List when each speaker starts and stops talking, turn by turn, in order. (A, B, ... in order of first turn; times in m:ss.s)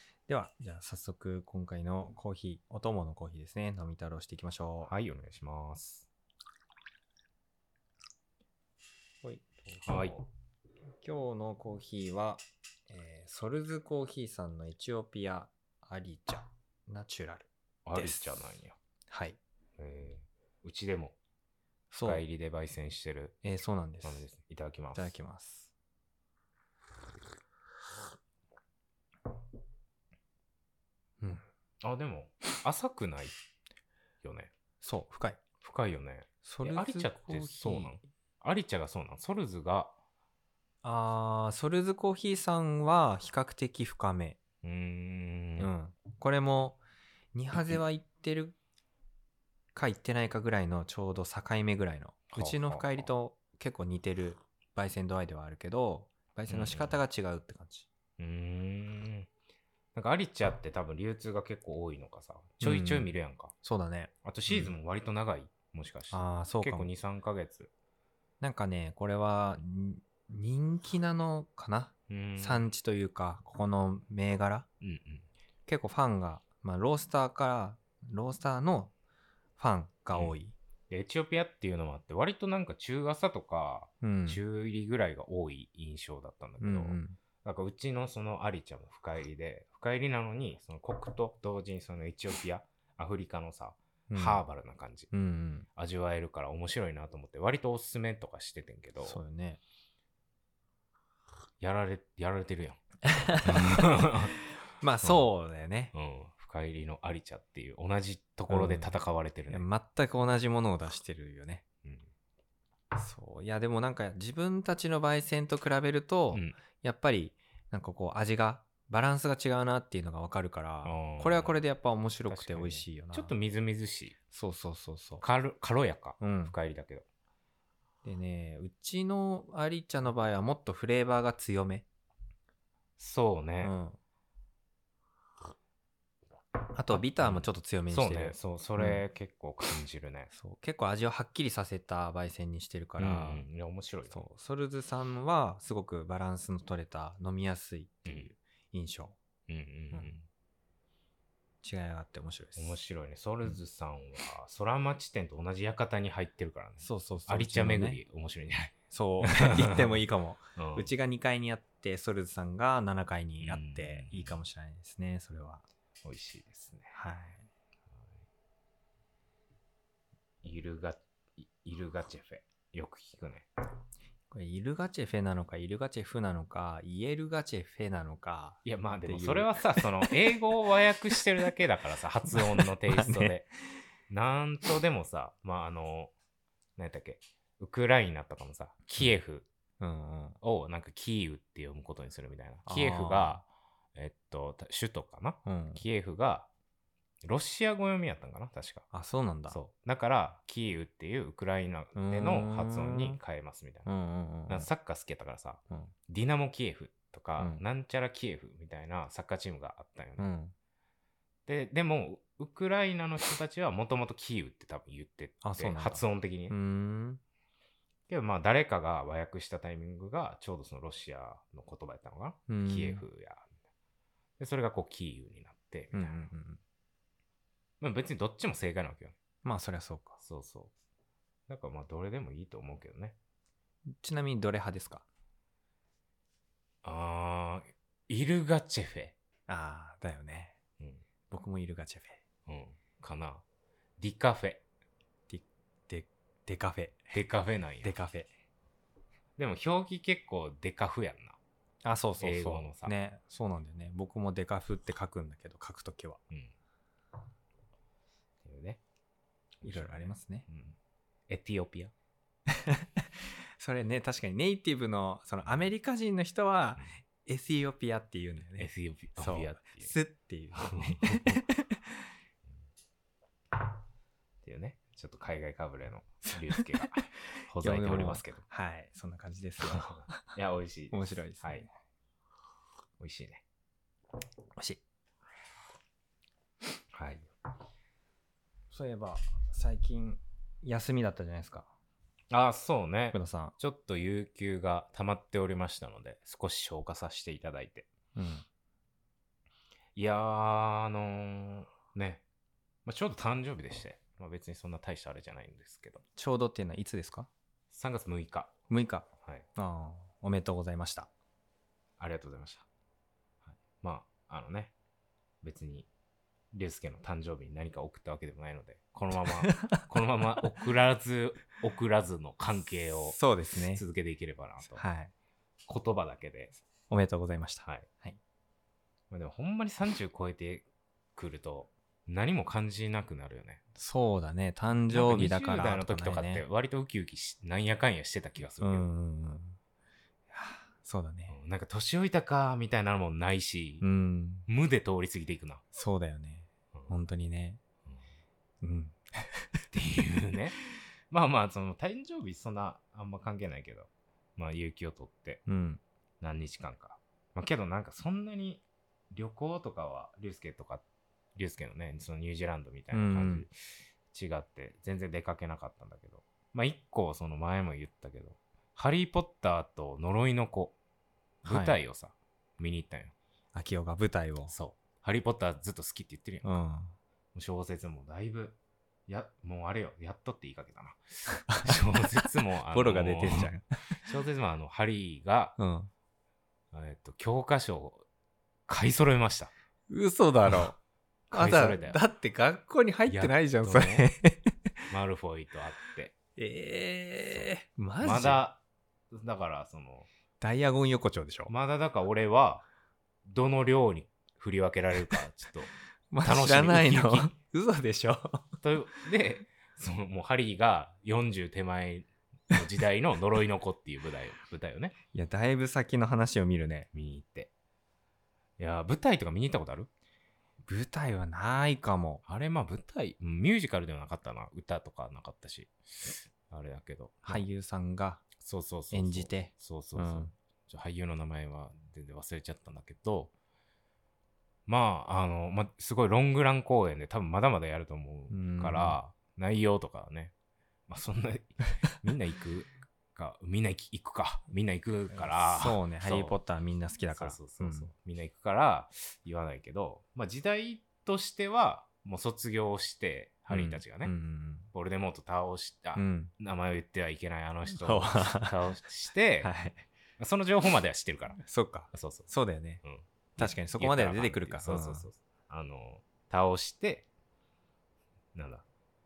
0:00.3-0:04.9 A
0:04.9-0:06.1 B
0:09.2-0:10.2 A
0:09.9-0:10.2 B
0:11.0-0:18.3 A
0:17.9-0:18.8 B
0:19.1-0:19.4 A
0:19.8-0:21.2 B
0:21.9-0:22.2 A
0:22.0-0:23.4 B
0:23.4-0:24.3 A
0:24.0-0:25.1 B
0:25.0-0:25.7 A
0:31.8-0:33.4 B
0:34.2-0:34.5 B
0:34.8-0:35.4 A
0:35.6-0:39.9 B
0:36.4-0:37.9 A
0:40.8-0:44.4 A
0:44.6-0:45.7 B
0:45.6-0:46.8 A
0:47.3-0:48.6 A
0:49.8-0:57.9 A
0:52.3-0:53.1 B
0:56.5-0:57.0 B
0:58.2-0:59.3 B
1:00.0-1:03.5 B
1:02.6-1:03.1 A
1:03.6-1:04.7 A
1:04.2-1:07.7 B
1:06.1-1:06.9 A
1:08.4-1:14.7 A
1:12.1-1:12.7 B
1:14.8-1:15.3 B
1:15.7-1:18.9 A
1:19.6-1:20.6 A
1:20.9-1:35.1 B
1:24.0-1:24.4 A
1:26.6-1:27.2 A
1:34.1-1:34.4 A
1:35.1-1:35.7 A
1:35.8-1:39.2 B
1:39.0-1:39.6 A
1:41.6-1:42.8 B
1:43.0-1:44.2 A
1:43.4-1:44.4 B
1:44.8-1:45.9 A
1:45.0-1:45.3 B
1:45.9-1:49.7 B
1:48.5-1:48.9 A
1:49.5-1:51.6 A
1:51.8-1:52.1 B
1:52.9-2:03.3 A
1:56.3-1:56.6 B
2:00.8-2:01.6 B
2:02.3-2:04.2 B
2:04.3-2:05.2 A
2:05.2-2:07.0 B
2:06.2-2:06.5 A
2:08.0-2:11.8 A
2:13.0-2:13.7 B
2:13.6-2:14.0 A
2:16.7-2:19.0 A
2:16.9-2:20.3 B
2:20.3-2:23.4 A
2:23.0-2:24.2 B
2:24.1-2:29.2 A
2:29.5-2:30.3 B
2:31.6-2:32.8 A
2:32.6-2:40.0 B
2:36.8-2:38.0 A
2:38.9-2:45.6 A
2:40.6-2:40.9 B
2:43.4-2:44.4 B
2:46.0-2:47.0 B
2:46.9-2:47.5 A
2:50.4-2:53.5 B
2:54.3-3:00.1 A
2:58.6-3:03.5 B
3:02.3-3:03.4 A
3:04.1-3:06.1 B
3:06.8-3:09.5 B
3:09.8-3:10.4 A
3:10.4-3:16.5 B
3:12.7-3:13.4 A
3:15.4-3:15.8 A
3:17.2-3:18.9 B
3:18.9-3:19.6 A
3:19.5-3:23.9 B
3:22.0-3:23.2 A
3:23.9-3:24.7 A
3:24.5-3:30.3 B
3:30.2-3:30.5 A
3:31.5-3:36.6 B
3:35.4-3:37.2 A
3:38.1-3:43.4 B
3:42.5-3:43.0 A
3:44.4-3:46.3 B
3:45.9-3:46.6 A
3:47.8-3:49.2 B
3:49.4-3:50.2 A
3:50.2-3:50.7 B
3:51.5-3:53.2 B
3:53.9-3:55.0 A
3:56.8-3:59.2 B
3:59.5-4:00.6 A
4:01.3-4:02.2 A
4:02.5-4:03.4 B
4:04.0-4:04.6 B
4:05.3-4:07.1 A
4:07.1-4:07.9 B
4:07.8-4:08.3 A
4:09.4-4:11.4 B
4:11.8-4:16.2 A
4:12.2-4:12.9 B
4:18.4-4:18.8 B
4:19.6-4:20.8 B
4:19.6-4:20.5 A
4:21.3-4:21.9 B
4:22.5-4:32.1 A
4:28.6-4:30.0 B
4:30.6-4:31.5 B
4:34.4-4:38.4 B
4:36.6-4:37.0 A
4:37.6-4:40.3 A
4:39.6-4:41.7 B
4:40.9-4:41.7 A
4:43.0-4:43.4 B
4:44.6-4:44.8 A
4:46.9-4:47.3 B
4:48.7-4:51.7 A
4:52.3-4:57.9 B
4:53.1-4:53.6 A
4:58.2-4:58.4 A
5:00.0-5:02.2 B
5:02.9-5:06.0 B
5:06.2-5:07.3 A
5:07.7-5:08.5 B
5:08.7-5:11.1 A
5:12.0-5:12.6 B
5:13.7-5:14.7 B
5:15.4-5:15.9 B
5:16.5-5:23.2 B
5:19.5-5:19.8 A
5:23.1-5:23.8 A
5:23.7-5:24.8 B
5:24.7-5:25.1 A
5:25.7-5:26.6 B
5:26.9-5:28.2 A
5:29.1-5:33.6 B
5:33.8-5:36.4 A
5:34.9-5:38.9 B
5:38.6-5:39.6 A
5:40.3-5:41.4 A
5:41.3-5:43.8 B
5:43.8-5:44.5 A
5:44.5-5:45.6 B
5:45.7-5:47.6 A
5:48.6-5:49.6 A
5:49.7-5:50.6 B
5:51.1-5:55.4 B
5:55.5-5:55.8 A
5:56.2-6:00.8 B
6:01.4-6:03.6 B
6:02.9-6:03.5 A
6:04.1-6:10.8 B
6:11.4-6:13.1 B
6:11.5-6:11.8 A
6:13.5-6:14.5 A
6:14.5-6:16.6 B
6:16.4-6:17.0 A
6:17.4-6:25.6 B
6:21.5-6:21.8 A
6:22.7-6:24.0 A
6:25.6-6:25.9 A
6:26.7-6:28.1 B
6:28.7-6:29.5 B
6:29.9-6:30.8 A
6:31.3-6:32.0 B
6:31.3-6:34.7 A
6:33.1-6:34.1 B
6:34.9-6:36.2 B
6:36.4-6:38.4 A
6:38.0-6:38.6 B
6:39.1-6:40.1 B
6:40.4-6:41.5 A
6:41.5-6:42.6 B
6:43.3-6:45.7 B
6:46.1-6:48.4 A
6:46.2-6:47.3 B
6:48.6-6:54.9 B
6:55.1-6:56.9 A
6:56.9-6:57.5 B
6:58.6-6:59.9 B
7:00.7-7:02.2 A
7:02.3-7:07.4 B
7:07.3-7:08.2 A
7:08.4-7:13.3 B
7:08.9-7:10.3 A
7:14.7-7:20.3 B
7:18.3-7:19.0 A
7:20.9-7:26.4 B
7:25.1-7:27.9 A
7:27.1-7:34.1 B
7:33.5-7:34.7 A
7:34.7-7:39.5 B
7:36.0-7:36.3 A
7:37.7-7:38.6 A
7:39.4-7:39.8 A
7:40.2-7:41.4 B
7:41.4-7:42.8 A
7:41.9-7:42.3 B
7:42.8-7:47.1 B
7:43.4-7:45.1 A
7:48.4-7:48.6 B